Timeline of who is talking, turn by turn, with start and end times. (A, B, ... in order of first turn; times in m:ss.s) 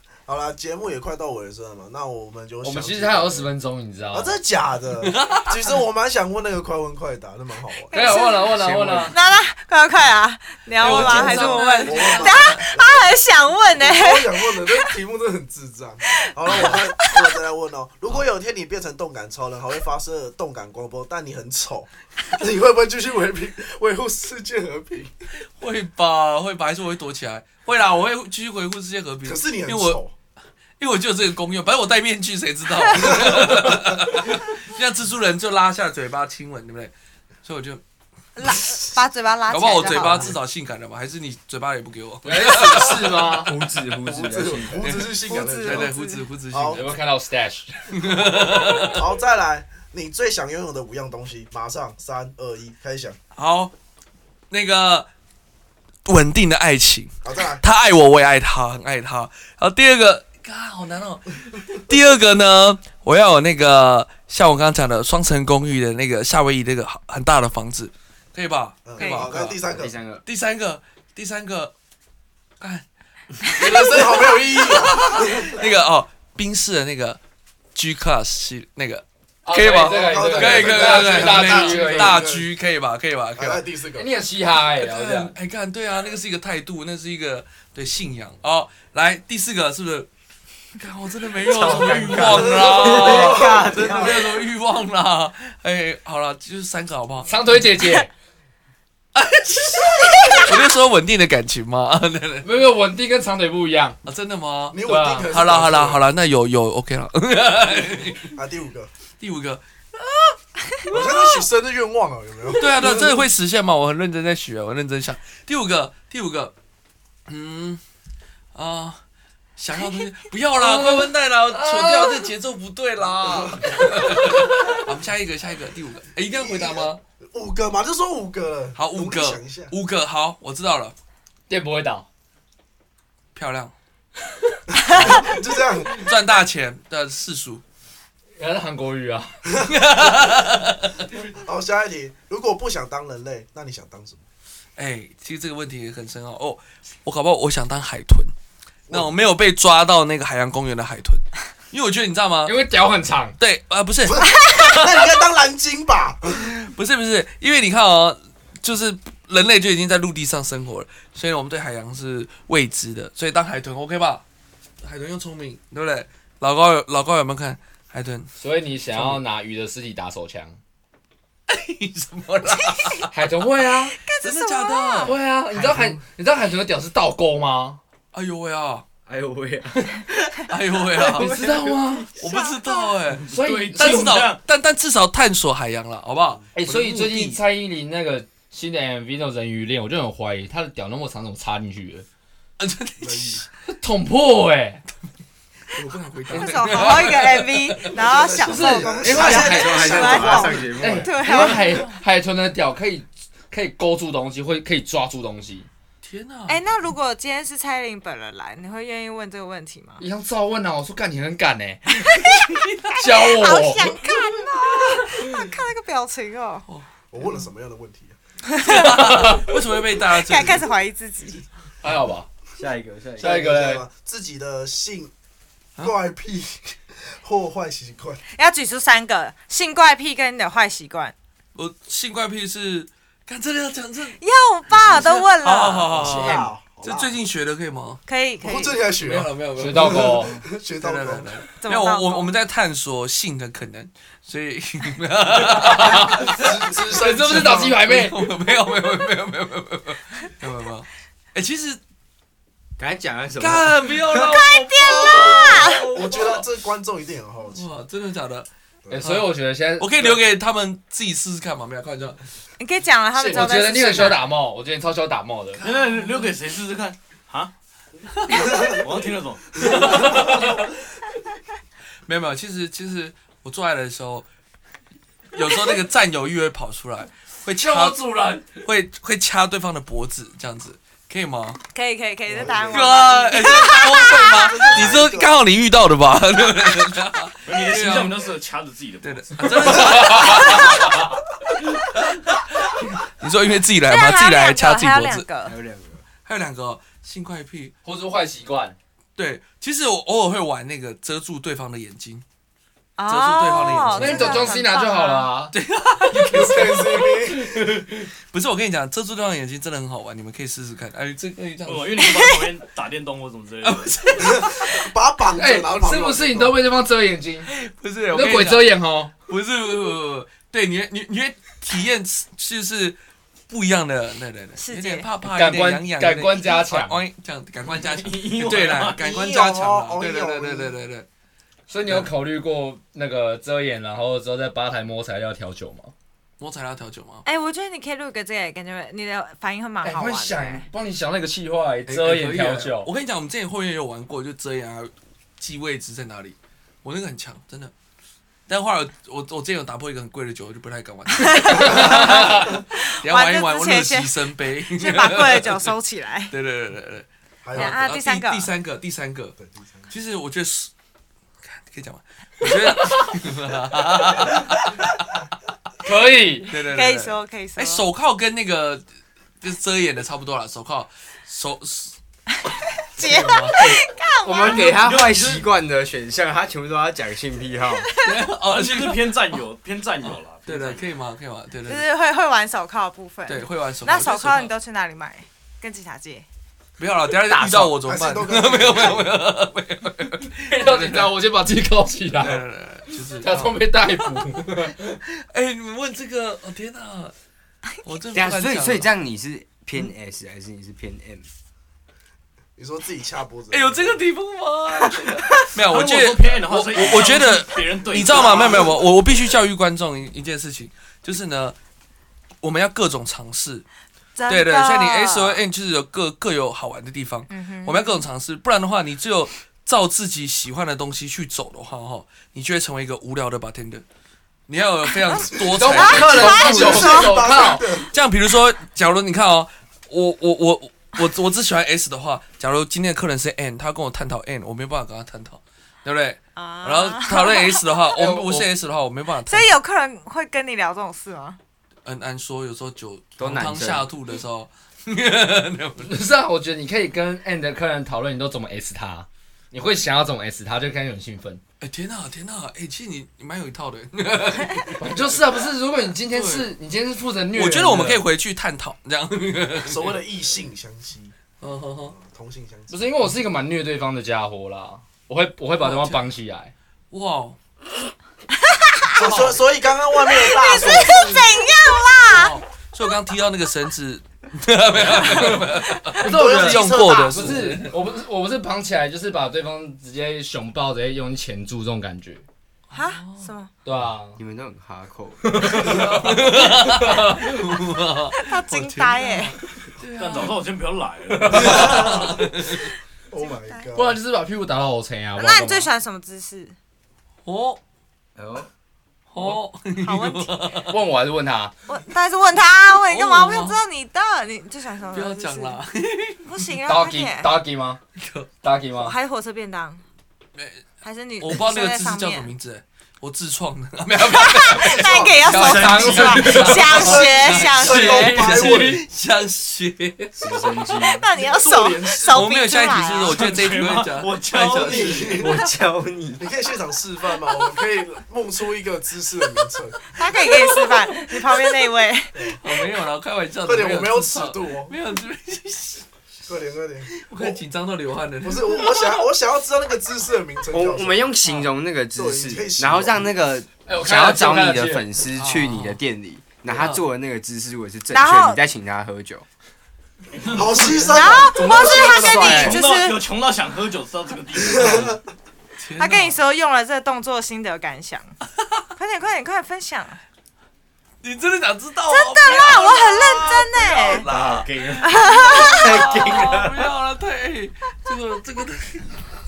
0:00.3-0:03.5 A
0:02.6-0:04.4 B
0:04.1-0:08.3 A
0:05.0-0:05.6 C
0:07.9-0:08.5 D
0:07.9-0:09.2 B
0:09.1-0:14.9 D
0:10.8-0:12.7 C
0:10.8-0:13.2 A
0:13.7-0:25.1 A
0:16.2-0:17.2 D
0:25.6-0:30.0 C
0:29.2-0:30.1 A
0:30.8-0:36.9 C
0:37.4-0:37.8 C
0:38.4-0:40.4 D
0:39.5-0:43.3 C
0:39.8-0:40.3 A
0:42.2-0:43.6 B
0:42.7-0:43.0 A
0:43.4-0:45.0 E
0:44.0-0:46.9 A
0:44.8-0:46.9 C
0:45.2-0:46.2 D
0:46.7-0:47.9 B
0:47.9-0:49.0 C
0:48.9-0:53.2 A
0:53.4-0:53.7 C
0:54.5-0:55.1 C
0:56.0-1:09.6 C
0:57.2-0:57.6 A
1:08.8-1:10.0 A
1:09.0-1:09.3 D
1:09.6-1:10.2 E
1:10.2-1:11.7 C
1:12.6-1:12.9 C
1:13.4-1:17.2 C
1:13.6-1:15.6 A
1:17.8-1:23.6 C
1:19.4-1:22.3 B
1:19.7-1:22.5 A
1:23.4-1:24.1 A
1:23.9-1:25.4 B
1:24.8-1:30.1 C
1:30.8-1:37.6 C
1:31.4-1:34.4 E
1:32.3-1:34.3 A
1:37.2-1:38.1 B
1:39.2-1:42.5 C
1:42.4-1:44.0 B
1:44.0-1:48.3 C
1:44.7-1:46.0 A
1:44.8-1:45.3 B
1:48.3-1:48.9 A
1:49.2-1:50.4 C
1:50.9-1:53.2 A
1:52.6-1:56.5 C
1:57.3-1:57.8 C
1:58.5-1:59.0 C
1:59.6-2:07.0 C
2:00.6-2:02.3 B
2:03.6-2:04.0 B
2:06.3-2:09.7 A
2:08.8-2:11.0 C
2:11.5-2:12.1 B
2:13.3-2:13.8 C
2:14.8-2:16.1 A
2:14.8-2:17.6 C
2:18.4-2:19.4 B
2:19.6-2:21.1 C
2:19.7-2:20.0 A
2:21.1-2:24.2 A
2:24.8-2:28.3 C
2:28.9-2:29.1 A
2:28.9-2:32.6 C
2:32.4-2:33.4 B
2:33.4-2:34.6 C
2:34.1-2:36.5 A
2:36.4-2:44.2 C
2:44.8-2:48.3 C
2:48.4-2:50.6 B
2:48.9-2:49.2 C
2:51.5-2:53.1 C
2:52.6-2:53.0 D
2:53.1-2:54.0 B
2:53.9-2:55.2 D
2:54.2-2:55.2 C
2:55.0-2:57.8 B
2:58.1-2:58.9 C
2:59.1-3:00.1 E
3:00.5-3:07.4 C
3:01.1-3:02.1 B
3:01.2-3:01.8 E
3:02.1-3:03.0 D
3:03.2-3:04.4 F
3:03.3-3:04.3 B
3:06.5-3:12.1 B
3:12.6-3:13.5 C
3:13.0-3:13.4 A
3:13.7-3:14.8 B
3:15.7-3:18.0 C
3:16.3-3:17.1 B
3:16.3-3:22.0 D
3:17.8-3:20.8 A
3:18.4-3:25.7 B
3:19.1-3:21.4 E
3:26.0-3:26.6 C
3:26.5-3:30.0 D
3:30.0-3:32.0 B
3:32.0-3:32.5 D
3:33.0-3:34.0 B
3:33.0-3:36.7 D
3:37.1-3:38.2 A
3:38.5-3:39.4 D
3:38.6-3:40.7 C
3:39.0-3:39.4 B
3:40.0-3:41.4 D
3:41.8-3:42.3 B
3:42.6-3:43.5 E
3:43.2-3:43.9 B
3:43.2-3:45.1 A
3:45.8-3:48.2 A
3:48.3-3:51.1 D
3:51.6-3:54.2 C
3:54.2-3:56.2 D
3:54.7-3:58.0 C
3:55.9-3:57.2 A
3:58.1-3:58.8 D
3:58.4-4:01.4 A
3:58.9-4:11.8 C
3:59.6-4:00.4 B
4:01.6-4:02.3 D
4:05.4-4:08.3 B
4:05.9-4:07.8 A
4:12.8-4:14.2 E
4:13.4-4:16.5 C
4:14.1-4:15.9 D
4:15.7-4:17.7 A
4:17.5-4:18.5 C
4:18.8-4:19.2 A
4:18.9-4:20.2 B
4:19.0-4:22.2 C
4:22.6-4:24.2 D
4:23.2-4:25.6 B
4:25.6-4:26.3 C
4:25.6-4:27.5 F
4:28.2-4:28.8 C
4:28.3-4:30.4 F
4:29.6-4:30.7 C
4:32.0-4:34.3 C
4:35.3-4:38.0 C
4:37.6-4:38.6 B
4:38.6-4:41.6 C
4:41.7-4:44.7 D
4:42.3-4:45.4 A
4:42.7-4:48.3 C
4:47.4-4:50.2 F
4:49.0-4:51.0 C
4:49.8-4:51.1 B
4:50.3-4:50.7 D
4:52.0-4:55.3 C
4:53.9-4:55.6 D
4:55.4-4:56.1 E
4:56.2-4:57.8 C
4:57.8-4:58.8 B
4:59.2-5:02.2 C
5:03.0-5:05.3 D
5:03.1-5:04.5 C
5:03.8-5:05.5 B
5:05.5-5:07.1 C
5:06.1-5:07.6 A
5:07.0-5:07.8 B
5:08.2-5:12.3 C
5:11.6-5:14.0 F
5:13.6-5:14.9 C
5:14.2-5:16.6 A
5:15.3-5:17.5 B
5:17.5-5:31.1 C
5:18.1-5:19.1 B
5:24.6-5:25.1 D
5:25.2-5:27.0 B
5:27.6-5:29.1 F
5:28.9-5:30.8 A
5:31.7-5:35.9 B
5:36.4-5:37.2 C
5:37.2-5:40.7 D
5:39.8-5:42.9 B
5:41.9-5:47.7 C
5:48.5-5:55.7 C
5:51.2-5:56.3 D
5:51.6-5:52.2 B
5:56.3-5:59.4 C
5:57.4-5:57.9 A
5:57.5-5:58.5 D
5:59.4-5:59.9 A
5:59.9-6:00.7 C
6:01.4-6:05.2 C
6:05.8-6:06.6 B
6:06.5-6:08.9 C
6:06.6-6:07.8 D
6:09.4-6:12.0 C
6:12.4-6:14.8 D
6:13.0-6:13.8 C
6:14.2-6:18.0 E
6:14.4-6:15.5 F
6:18.0-6:19.2 C
6:18.5-6:20.8 F
6:20.5-6:21.9 C
6:21.7-6:26.3 D
6:23.3-6:24.5 C
6:26.8-6:31.2 C
6:27.3-6:29.2 A
6:30.4-6:32.4 B
6:32.2-6:34.6 C
6:33.2-6:34.9 B
6:35.1-6:37.1 C
6:37.8-6:38.9 C
6:38.1-6:41.3 E
6:42.6-6:44.0 A
6:43.5-6:51.6 C
6:45.6-6:48.8 F
6:48.1-6:48.8 A
6:52.4-6:53.6 C
6:54.2-6:55.4 D
6:54.3-7:03.8 C
6:57.3-6:58.1 D
7:04.5-7:06.9 C
7:05.1-7:07.3 D
7:05.3-7:07.9 A
7:05.4-7:07.8 B
7:07.8-7:19.5 C
7:16.4-7:17.8 D
7:18.0-7:18.5 B
7:19.3-7:21.4 D
7:21.8-7:26.0 C
7:23.2-7:23.9 E
7:25.8-7:31.4 B
7:31.6-7:35.1 C
7:34.8-7:38.1 B
7:36.1-7:36.5 C
7:37.3-7:40.0 C
7:39.6-7:41.2 A
7:41.4-7:42.0 C
7:41.9-7:42.8 A
7:42.7-7:46.5 B
7:45.6-7:46.1 C
7:46.9-7:47.4 C
7:48.5-7:49.0 D
7:49.0-7:51.3 A
7:49.0-7:49.4 C
7:50.0-7:52.4 D
7:52.1-7:57.8 C
7:55.1-7:55.4 B
7:56.0-8:02.2 B
7:56.0-7:57.6 A
8:02.7-8:03.3 C
8:02.7-8:03.5 D
8:03.6-8:04.2 B
8:04.2-8:06.3 E
8:05.2-8:07.3 B
8:05.7-8:10.4 C
8:08.1-8:09.4 D
8:10.0-8:12.1 F
8:11.1-8:11.7 B
8:11.3-8:12.7 C
8:11.3-8:12.2 A
8:13.1-8:14.0 A
8:13.2-8:13.7 D
8:13.7-8:15.7 B
8:15.2-8:16.6 D
8:17.2-8:17.6 C
8:18.2-8:18.5 E
8:19.1-8:20.8 C
8:19.8-8:20.6 D
8:20.7-8:21.5 B
8:21.7-8:25.6 D
8:22.9-8:23.6 C
8:24.9-8:26.4 C
8:26.2-8:27.3 D
8:26.6-8:27.8 B
8:28.0-8:28.3 C
8:28.4-8:29.0 B
8:28.7-8:29.8 D
8:30.4-8:30.6 C
8:30.8-8:32.3 D
8:31.2-8:40.4 C
8:34.0-8:38.3 D
8:34.8-8:35.2 A
8:35.3-8:37.1 B
8:35.3-8:36.6 F
8:36.6-8:38.8 A
8:37.6-8:38.8 B
8:40.2-8:41.1 E
8:40.7-8:43.2 D
8:41.2-8:42.3 A
8:41.8-8:45.4 C
8:43.0-8:45.3 F
8:44.6-8:45.4 A
8:45.0-8:46.3 E
8:46.2-8:49.8 A
8:49.9-8:52.4 D
8:52.2-8:52.4 A
8:52.4-8:55.9 C
8:53.4-8:54.8 A
8:56.3-8:57.4 A
8:57.0-8:58.7 C
8:58.2-9:01.2 A
9:00.5-9:09.3 E
9:01.9-9:03.1 A
9:03.6-9:04.9 B
9:05.1-9:05.8 C
9:06.5-9:06.8 C
9:07.9-9:08.4 D
9:10.2-9:12.6 A
9:10.3-9:11.3 C
9:10.8-9:13.0 D
9:12.1-9:12.5 B
9:12.2-9:15.0 F
9:14.5-9:15.0 A
9:14.6-9:14.9 C
9:15.6-9:16.2 C
9:15.8-9:18.2 D
9:18.8-9:20.0 D
9:21.0-9:29.0 C
9:21.9-9:24.1 D
9:24.1-9:26.7 E
9:24.8-9:25.8 D